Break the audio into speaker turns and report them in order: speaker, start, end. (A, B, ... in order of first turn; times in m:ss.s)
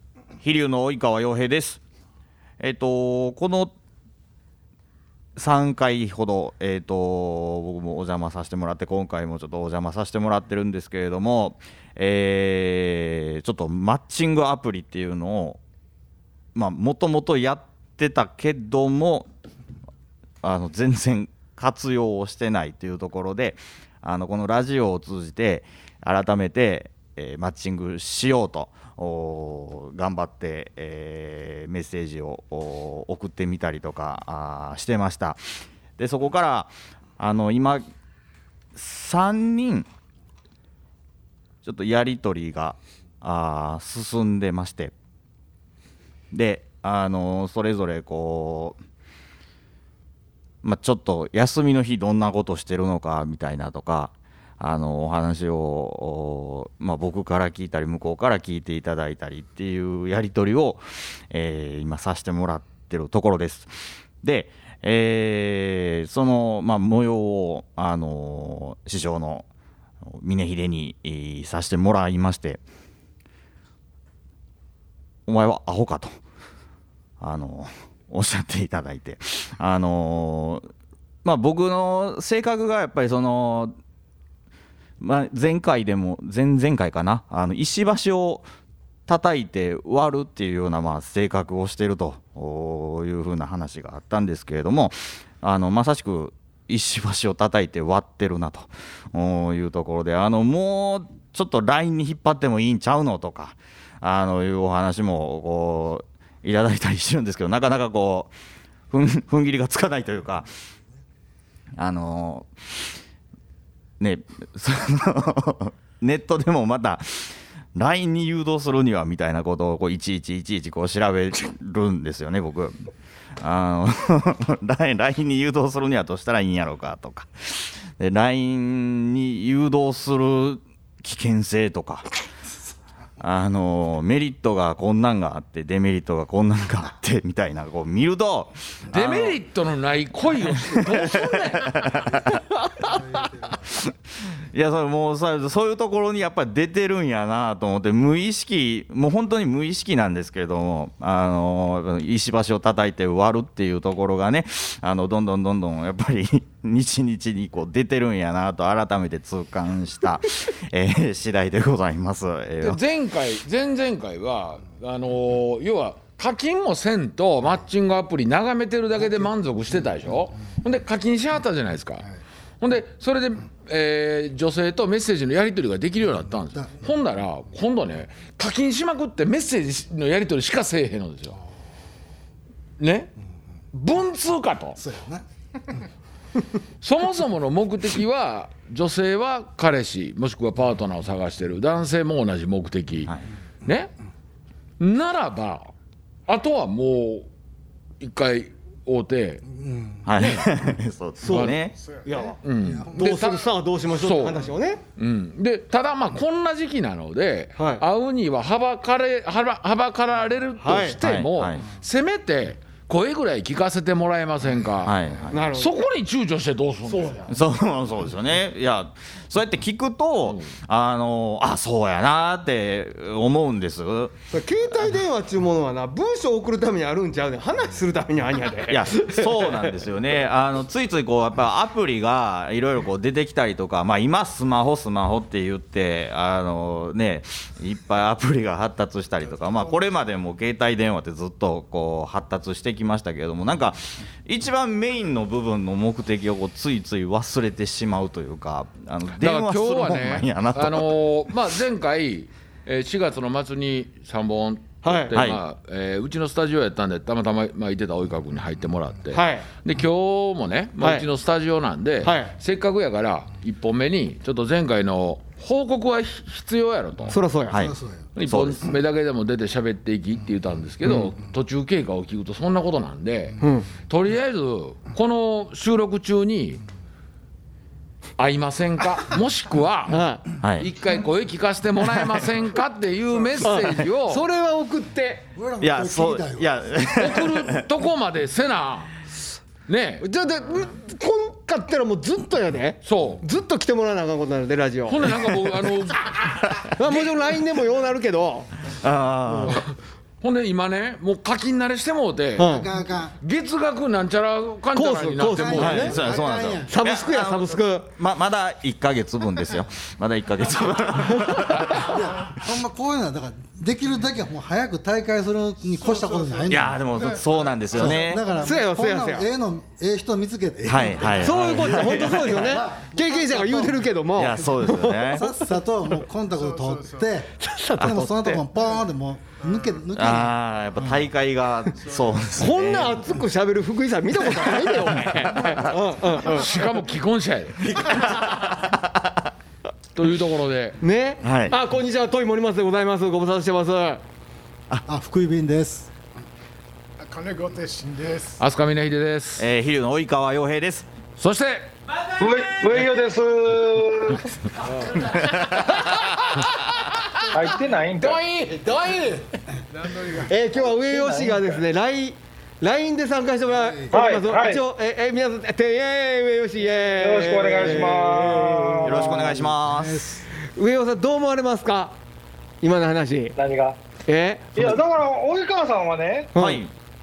0:00.4-0:01.8 A
0:02.6-0:03.7 A
0:05.4-0:15.6 A
0:16.5-0:19.3 A
0:20.4-0:37.8 A
0:38.7-0:39.9 A
0:41.6-0:44.9 A
0:46.3-0:48.8 A
0:50.6-1:09.4 A
1:10.1-1:12.6 A
1:15.3-1:16.2 A
1:17.2-1:20.7 A
1:21.2-1:23.8 A
1:25.0-1:28.5 A
1:29.1-1:48.3 A
1:48.9-1:50.5 A
1:51.8-1:52.9 A
1:54.0-2:02.7 A
2:03.4-2:12.1 A
2:13.2-2:19.4 A
2:18.9-2:21.9 B
2:20.8-2:22.2 A
2:22.8-2:23.7 C
2:23.8-2:42.8 A
2:42.6-2:52.1 B
2:52.6-3:01.4 B
3:02.8-3:03.1 B
3:03.7-3:04.8 B
3:04.8-3:05.2 C
3:06.8-3:13.1 B
3:13.6-3:13.9 B
3:14.8-3:15.7 B
3:16.3-3:17.3 B
3:18.0-3:19.4 B
3:19.5-3:20.0 C
3:20.0-3:21.8 A
3:20.2-3:20.4 B
3:21.2-3:22.4 D
3:21.8-3:22.1 E
3:22.4-3:24.4 B
3:22.6-3:23.3 C
3:22.9-3:24.8 D
3:25.0-3:34.9 B
3:27.6-3:27.8 D
3:30.6-3:31.0 D
3:31.0-3:31.6 A
3:34.8-3:35.4 A
3:35.3-3:35.8 D
3:35.5-3:37.3 B
3:36.8-3:37.3 D
3:37.3-3:44.1 A
3:44.3-3:49.8 D
3:48.7-4:11.0 A
4:09.2-4:27.2 B
4:14.8-4:15.1 D
4:15.1-4:15.4 A
4:19.1-4:19.5 D
4:20.8-4:21.0 D
4:22.0-4:22.3 D
4:27.1-4:27.7 D
4:27.5-4:28.6 A
4:27.6-4:28.0 C
4:28.2-4:36.6 B
4:30.8-4:31.1 D
4:33.4-4:33.7 D
4:38.2-4:40.0 B
4:39.9-4:40.2 D
4:40.4-4:40.7 A
4:40.6-4:44.2 B
4:43.4-4:45.3 D
4:45.3-4:46.7 C
4:45.6-4:47.6 A
4:46.9-4:48.9 B
4:49.7-4:50.0 B
4:50.0-4:55.2 D
4:52.8-4:53.2 B
4:54.8-4:57.1 B
4:56.8-4:58.5 D
4:58.7-4:59.6 A
4:59.3-4:59.6 D
5:00.2-5:02.7 B
5:02.4-5:02.7 D
5:02.4-5:03.2 C
5:03.2-5:06.0 B
5:04.7-5:06.0 D
5:05.2-5:06.9 C
5:05.6-5:12.0 A
5:06.7-5:07.9 D
5:11.1-5:11.8 D
5:11.6-5:16.8 C
5:15.8-5:17.5 E
5:16.5-5:18.2 A
5:17.7-5:31.0 C
5:18.3-5:19.3 D
5:20.6-5:22.6 A
5:21.2-5:25.6 D
5:24.2-5:25.3 A
5:26.3-5:27.1 E
5:27.4-5:28.5 D
5:29.4-5:29.7 E
5:29.9-5:33.1 A
5:31.8-5:32.3 E
5:32.3-5:36.6 D
5:34.9-5:35.6 A
5:36.2-5:37.8 B
5:37.9-5:39.2 A
5:40.0-5:40.8 B
5:40.8-5:44.0 D
5:41.2-5:41.6 A
5:44.8-5:45.9 C
5:47.0-5:48.4 E
5:48.4-5:49.5 B
5:49.4-5:50.8 A
5:51.2-5:52.2 B
5:52.2-5:54.3 F
5:54.6-5:57.3 B
5:54.9-5:56.0 A
5:57.3-5:58.2 F
5:58.0-5:59.2 B
5:59.8-6:00.3 E
6:00.2-6:09.3 D
6:00.6-6:01.5 F
6:03.9-6:04.6 F
6:07.0-6:09.1 F
6:08.8-6:10.1 A
6:08.9-6:10.2 C
6:10.4-6:11.9 D
6:12.6-6:13.4 D
6:13.4-6:13.8 F
6:14.0-6:14.7 D
6:14.5-6:16.3 F
6:16.3-6:16.6 D
6:16.4-6:16.7 A